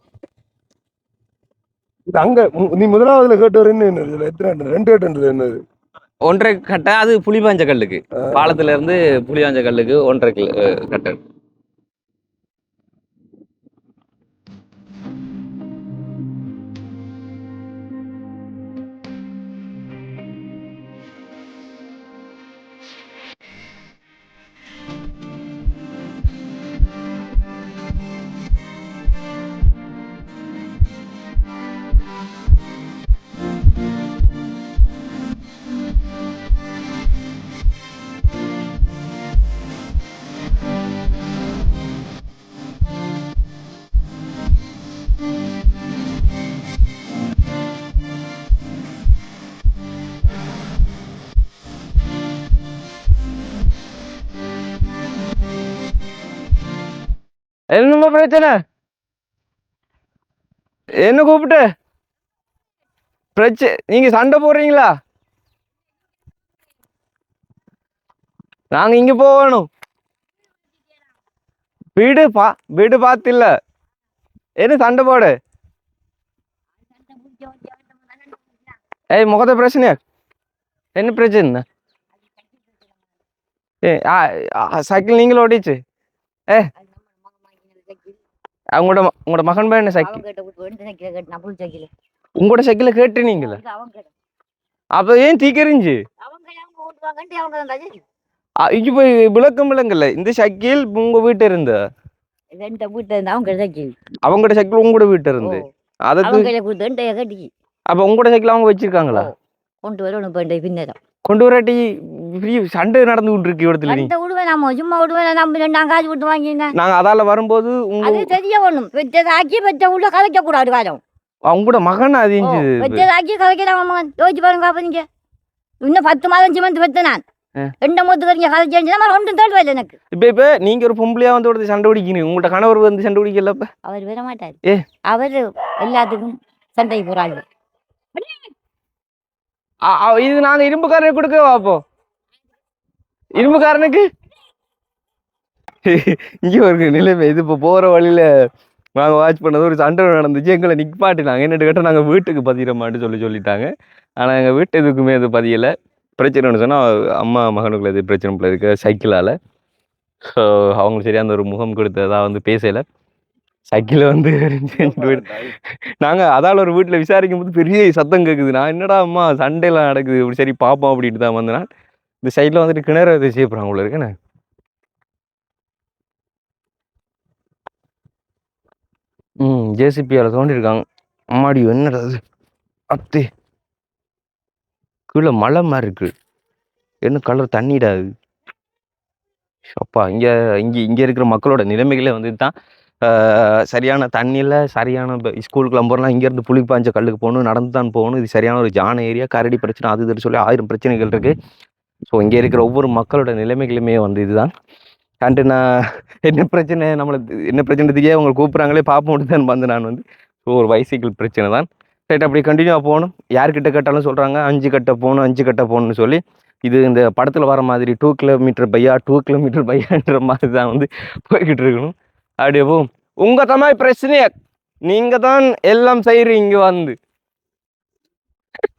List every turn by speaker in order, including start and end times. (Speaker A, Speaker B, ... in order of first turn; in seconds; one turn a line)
Speaker A: 2.1-5.6
Speaker B: 6.3-11.2
Speaker A: 8.2-8.5
Speaker B: 57.7-58.6
Speaker B: 61.0-61.6
Speaker B: 63.4-64.9
Speaker B: 68.7-69.7
Speaker B: 72.0-73.5
Speaker B: 74.6-75.4
Speaker C: 77.0-78.6
Speaker B: 79.1-80.0
Speaker B: 81.0-81.6
Speaker B: 83.8-85.8
Speaker C: 86.8-88.2
Speaker B: 88.8-90.2
Speaker C: 90.0-91.9
Speaker B: 92.4-93.6
Speaker C: 93.4-94.1
Speaker B: 95.0-96.0
Speaker C: 96.2-98.0
Speaker B: 98.6-101.8
Speaker C: 102.5-104.0
Speaker B: 104.3-106.5
Speaker C: 106.2-107.5
Speaker B: 107.9-109.3
Speaker C: 109.1-111.0
Speaker B: 111.2-114.1
Speaker C: 113.9-116.7
Speaker B: 116.8-118.3
Speaker C: 118.0-121.0
Speaker B: 121.5-123.1
Speaker C: 122.4-125.1
Speaker C: 125.8-127.2
Speaker C: 127.8-130.0
Speaker B: 130.1-133.7
Speaker C: 133.8-137.4
Speaker B: 139.8-141.8
Speaker B: 143.3-144.1
Speaker B: 145.9-148.3
Speaker B: 149.0-159.4
Speaker B: 160.2-162.8
Speaker B: 163.7-165.4
Speaker A: 164.8-165.2
Speaker B: 166.0-171.7
Speaker B: 172.2-174.1
Speaker B: 179.4-180.8
Speaker B: 181.3-182.2
Speaker B: 182.9-183.3
Speaker B: 185.1-186.1
Speaker B: 187.0-188.1
Speaker B: 189.8-192.5
Speaker B: 193.0-201.3
Speaker B: 202.1-204.5
Speaker B: 205.2-224.3
Speaker B: 224.9-227.0